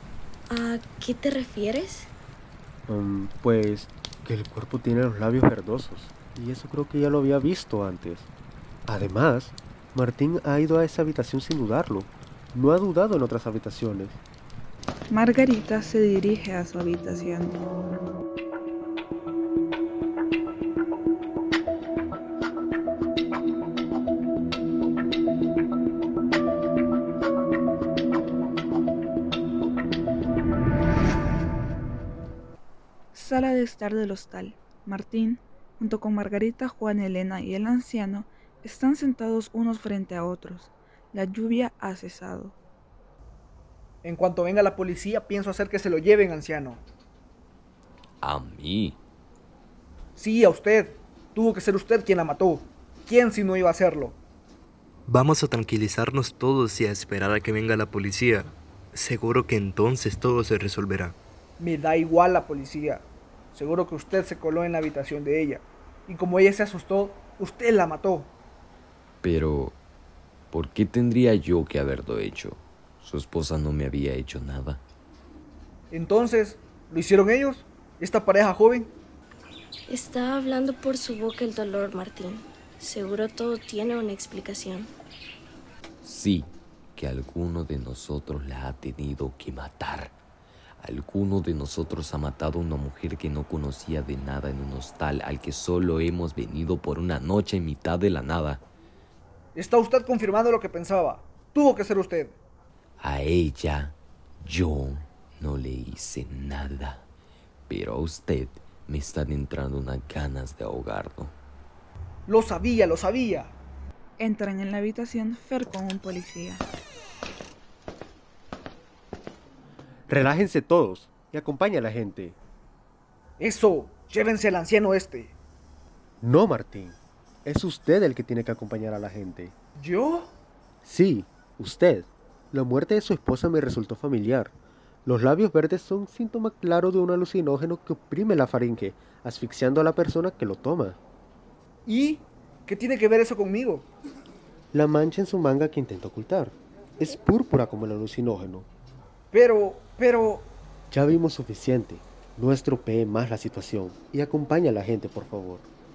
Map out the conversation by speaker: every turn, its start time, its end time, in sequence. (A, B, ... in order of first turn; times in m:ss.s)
0:00.5-0:02.1 A
0:02.9-0:08.3 B
0:08.9-0:14.2 B
0:15.1-0:17.6 C
0:33.1-0:42.6 C
0:44.0-0:46.8 D
0:48.2-0:49.0 E
0:50.2-0:54.2 D
0:55.1-1:01.2 F
1:01.6-1:08.3 D
1:09.2-1:09.8 E
1:10.5-1:14.8 E
1:15.9-1:18.9 D
1:19.9-1:24.9 A
1:26.0-1:30.2 E
1:30.8-1:38.6 E
1:39.6-1:42.4 D
1:43.0-1:47.0 E
1:47.7-1:51.4 E
1:52.3-1:53.5 D
1:54.2-1:56.6 C
2:00.1-2:02.4 B
2:03.4-2:05.3 D
2:06.2-2:09.5 B
2:09.8-2:10.3 D
2:10.8-2:14.5 B
2:15.0-2:21.0 B
2:21.9-2:23.9 D
2:24.7-2:28.7 B
2:29.3-2:30.5 D
2:30.9-2:35.7 B